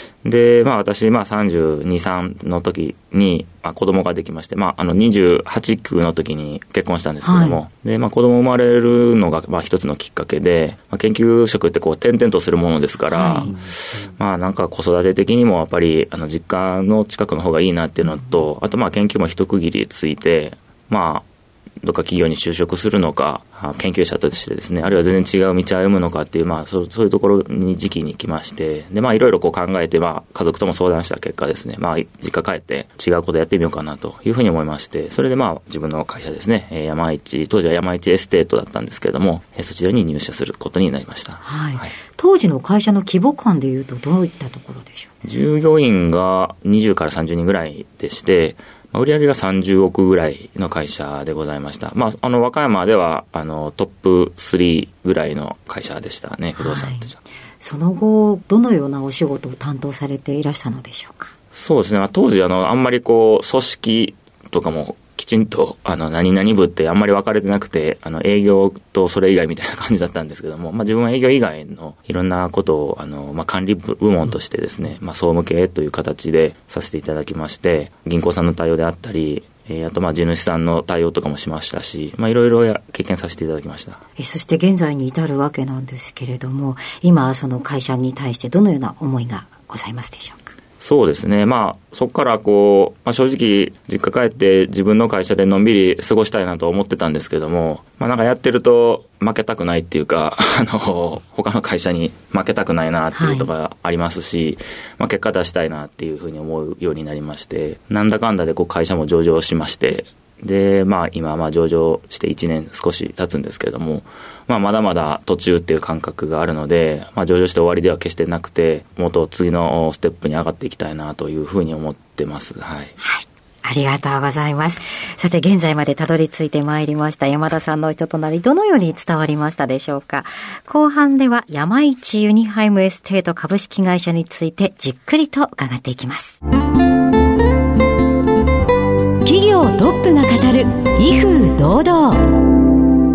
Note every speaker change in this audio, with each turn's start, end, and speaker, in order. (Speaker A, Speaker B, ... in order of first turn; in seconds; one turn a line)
Speaker A: 0.2-21.3
Speaker B: 7.2-7.6
Speaker B: 13.1-13.5
Speaker A: 21.8-41.9
Speaker B: 41.4-45.1
Speaker A: 45.2-57.2
Speaker B: 56.6-61.3
Speaker A: 61.5-84.0
Speaker B: 84.2-90.5
Speaker A: 90.8-122.9
Speaker B: 103.1-103.5
Speaker B: 123.0-136.4
Speaker B: 139.2-142.2